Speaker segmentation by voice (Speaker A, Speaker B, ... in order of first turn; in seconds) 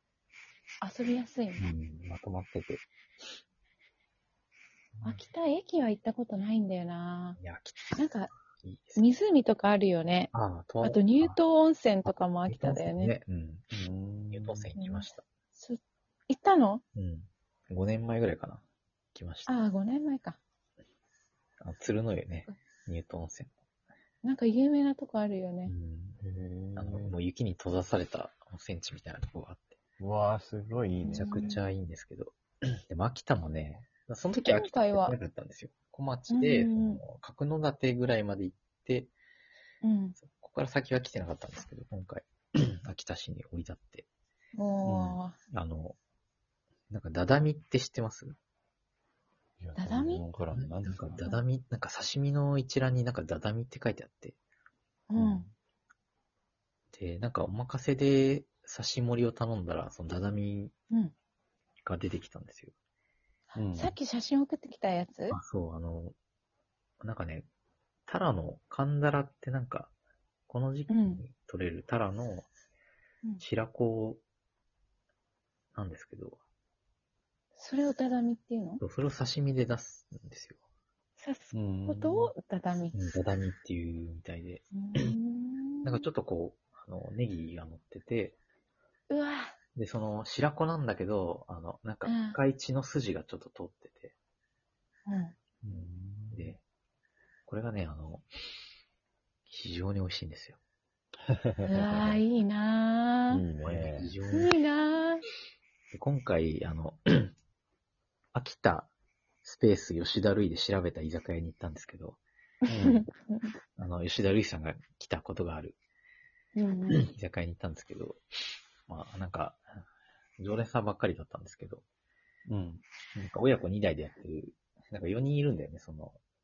Speaker A: 0.8-1.7, 5.0-7.4, 8.0-8.3, 9.0-13.1, 14.8-16.8, 19.5-20.4, 24.2-25.7, 31.0-31.6, 34.4-35.2, 36.3-37.0, 39.8-40.2, 44.5-45.4, 49.8-50.2, 55.1-55.5, 63.5-65.4, 70.9-71.2, 77.6-78.8, 81.2-82.9, 84.7-86.0, 89.1-89.5, 92.0-92.4, 95.1-95.3, 101.7-103.4, 104.3-105.2, 112.7-113.5, 116.5-117.0
Speaker B: 1.6-2.9, 7.4-8.0, 8.6-9.0, 10.3-11.4, 12.1-13.6, 14.3-15.2, 16.9-19.5, 21.6-23.5, 25.6-26.2, 26.8-29.8, 31.1-39.1, 40.2-44.1, 45.5-46.0, 46.9-48.4, 50.5-54.4, 56.9-60.7, 61.8-62.7, 65.3-66.1, 67.0-67.5, 68.1-69.9, 70.5-72.5, 73.4-74.2, 75.7-76.4, 78.8-80.6, 82.9-85.1, 85.8-88.4, 89.8-94.1, 95.7-96.6, 97.5-98.2, 99.5-100.6, 101.8-102.1, 103.6-104.5, 105.9-107.3, 108.3-108.9, 109.4-112.2, 113.8-115.8, 117.0-118.2, 118.9-119.6, 120.4-121.8, 123.2-126.2
Speaker C: 13.7-14.7, 26.2-27.1, 30.0-31.6, 44.8-45.2, 49.6-51.2, 55.1-55.5, 63.5-63.9, 81.5-82.3, 95.6-96.5, 101.3-102.1, 103.3-104.1, 112.7-113.0, 122.5-122.8